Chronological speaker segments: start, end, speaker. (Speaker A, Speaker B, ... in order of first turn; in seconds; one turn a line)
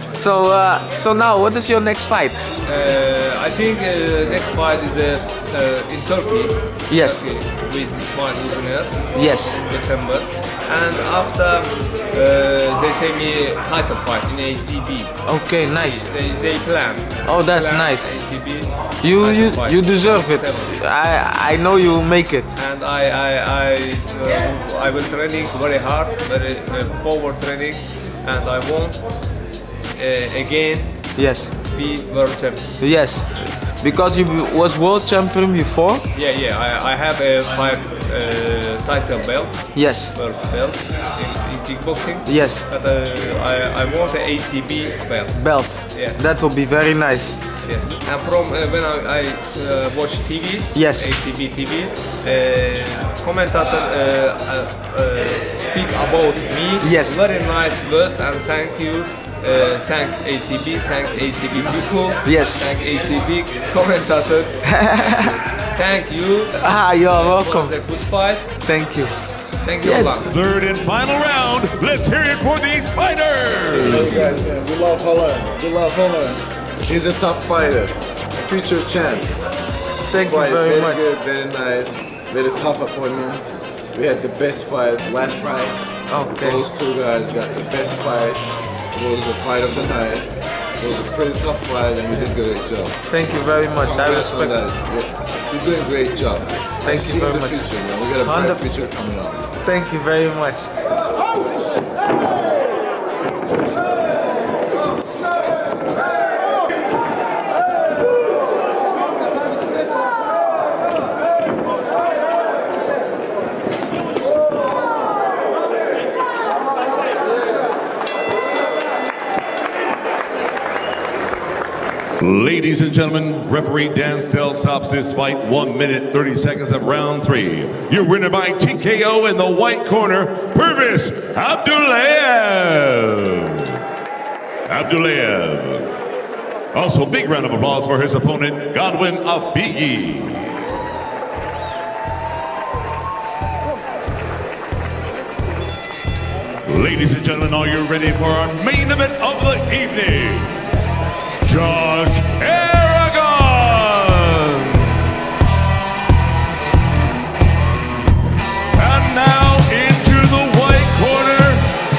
Speaker A: 0.1-2.6
Speaker B: 2.6-20.7
Speaker A: 6.9-7.2
Speaker A: 9.1-9.6
Speaker A: 15.2-16.1
Speaker A: 17.2-18.1
Speaker A: 19.0-22.6
Speaker B: 22.5-29.0
Speaker B: 29.9-31.0
Speaker A: 31.1-31.5
Speaker B: 31.6-32.7
Speaker A: 32.8-36.1
Speaker B: 36.1-45.4
Speaker A: 39.7-40.1
Speaker A: 42.2-42.6
Speaker A: 45.3-47.4
Speaker B: 45.9-46.2
Speaker B: 47.6-64.6
Speaker A: 50.7-51.1
Speaker A: 56.8-57.2
Speaker A: 62.2-62.7
Speaker A: 64.7-65.3
Speaker B: 65.6-68.5
Speaker A: 66.6-67.8
Speaker A: 68.6-69.1
Speaker B: 69.6-70.2
Speaker A: 69.8-70.2
Speaker C: 70.2-74.3
Speaker D: 73.7-79.3
Speaker A: 80.0-81.1
Speaker D: 80.1-85.8
Speaker A: 86.1-86.7
Speaker D: 86.3-93.0
Speaker A: 92.1-92.4
Speaker A: 93.1-94.6
Speaker D: 93.8-99.5
Speaker A: 96.8-98.7
Speaker A: 99.6-100.7
Speaker C: 122.2-133.7
Speaker C: 134.7-135.9
Speaker C: 136.7-140.6
Speaker C: 146.7-150.5
Speaker C: 151.4-154.9
Speaker C: 158.8-161.6